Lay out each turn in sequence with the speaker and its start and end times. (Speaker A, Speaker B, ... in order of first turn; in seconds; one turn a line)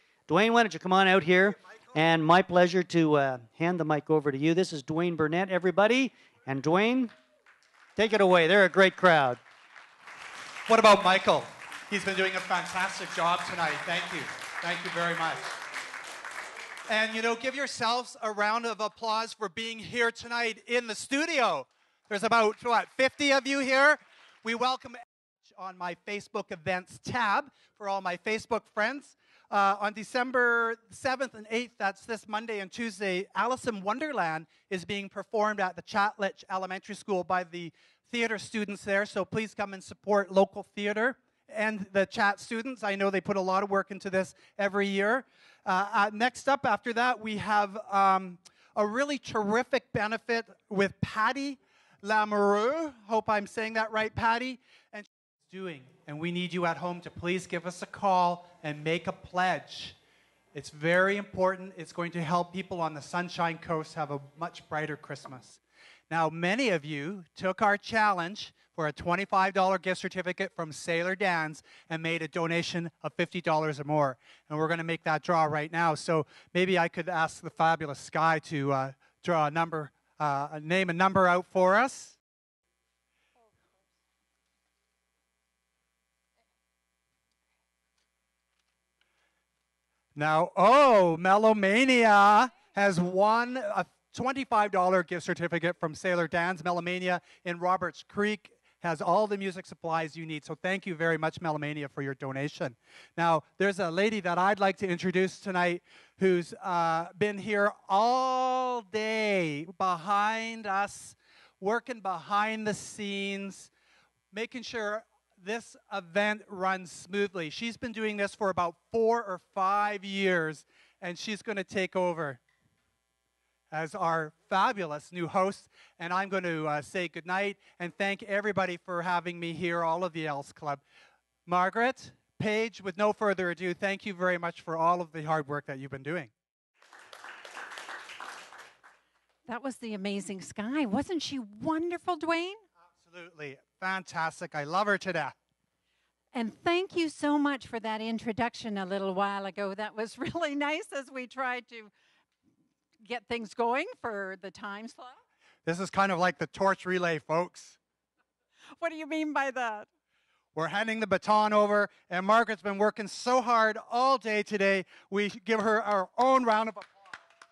Speaker A: 0.3-7.1
Speaker A: 8.0-9.4
Speaker B: 10.7-15.5
Speaker B: 16.9-60.0
Speaker B: 60.5-82.2
Speaker B: 90.1-113.7
Speaker B: 114.3-122.4
Speaker B: 123.7-130.8
Speaker B: 131.4-136.3
Speaker C: 139.4-142.6
Speaker B: 143.0-145.3
Speaker C: 146.3-151.9
Speaker C: 153.0-155.2
Speaker B: 155.7-157.8
Speaker C: 158.8-159.9
Speaker B: 160.5-166.9